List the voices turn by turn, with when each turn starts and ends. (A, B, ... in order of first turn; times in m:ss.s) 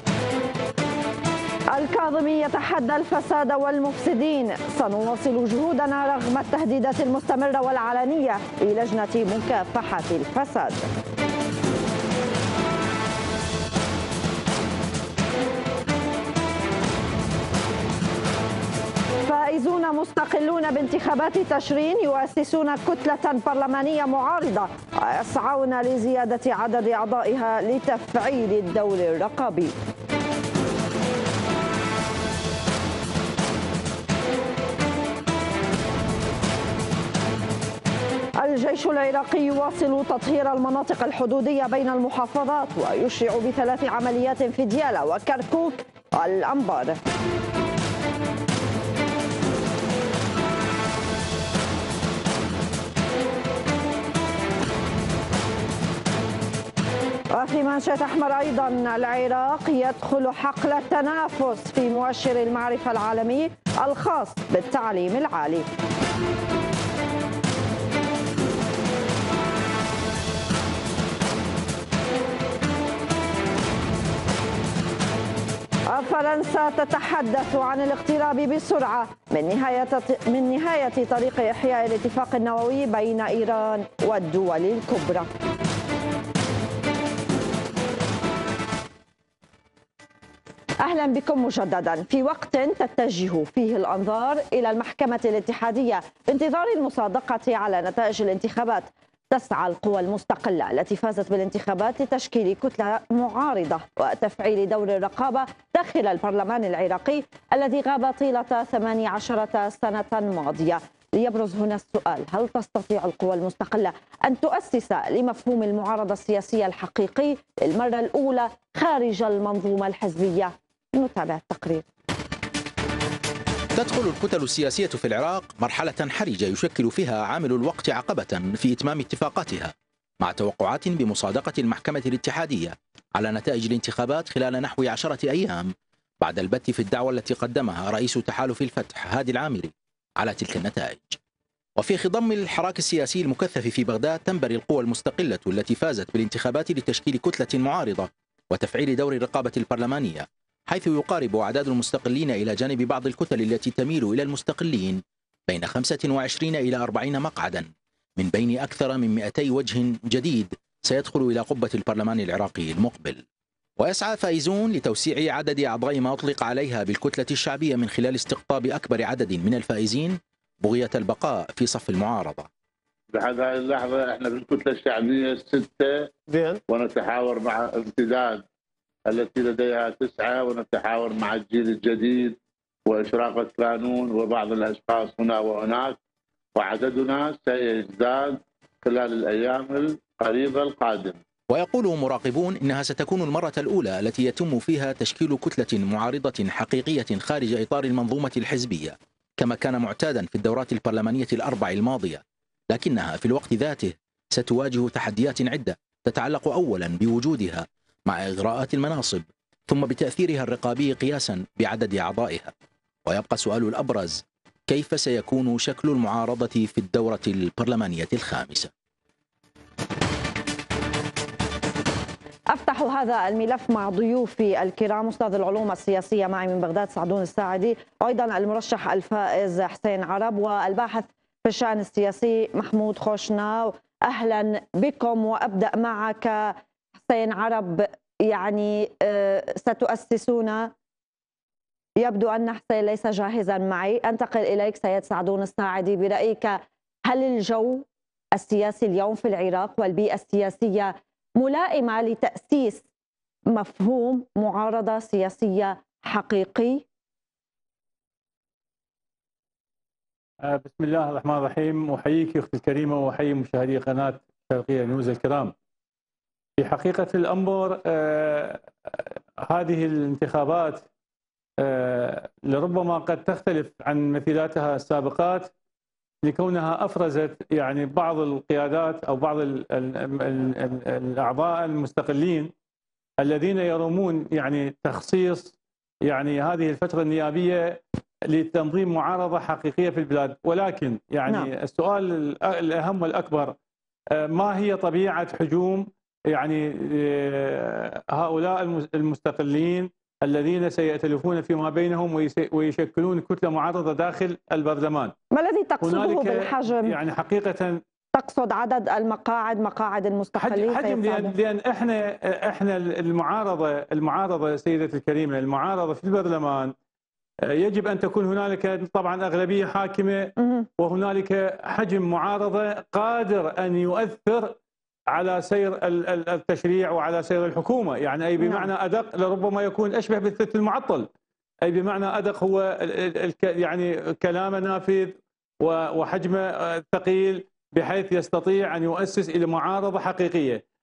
0:01.7-0:10.9 A
0:19.2-0:29.7 A
0:38.4-0:47.0 A
0:57.3-1:05.7 A
1:15.9-1:25.3 A
1:30.8-2:01.8 A
2:03.7-2:21.2 B
2:21.8-2:43.2 B
2:43.8-2:52.5 B
2:53.1-2:58.4 C
2:59.1-3:06.0 C
3:06.6-3:11.2 C
3:11.5-3:32.5 B
3:33.0-3:38.7 B
3:42.5-3:56.5 A
3:57.1-4:00.7 A
4:02.0-4:06.6 A
4:07.1-4:12.8 A
4:13.5-4:16.8 A
4:20.4-4:25.5 D
4:26.6-4:30.8 D
4:31.6-4:35.5 D
4:36.2-4:42.5 D
4:43.2-4:45.5 D
4:46.0-4:47.8 D
4:48.3-4:53.5 D
4:54.2-5:05.1 D
5:05.3-5:07.0 A
5:05.8-5:07.8 D
5:08.1-5:11.3 A
5:10.4-5:16.7 D
5:17.4-5:24.5 D
5:20.4-5:20.7 A
5:25.1-5:31.1 D
5:28.4-5:28.7 A
5:31.6-5:40.6 D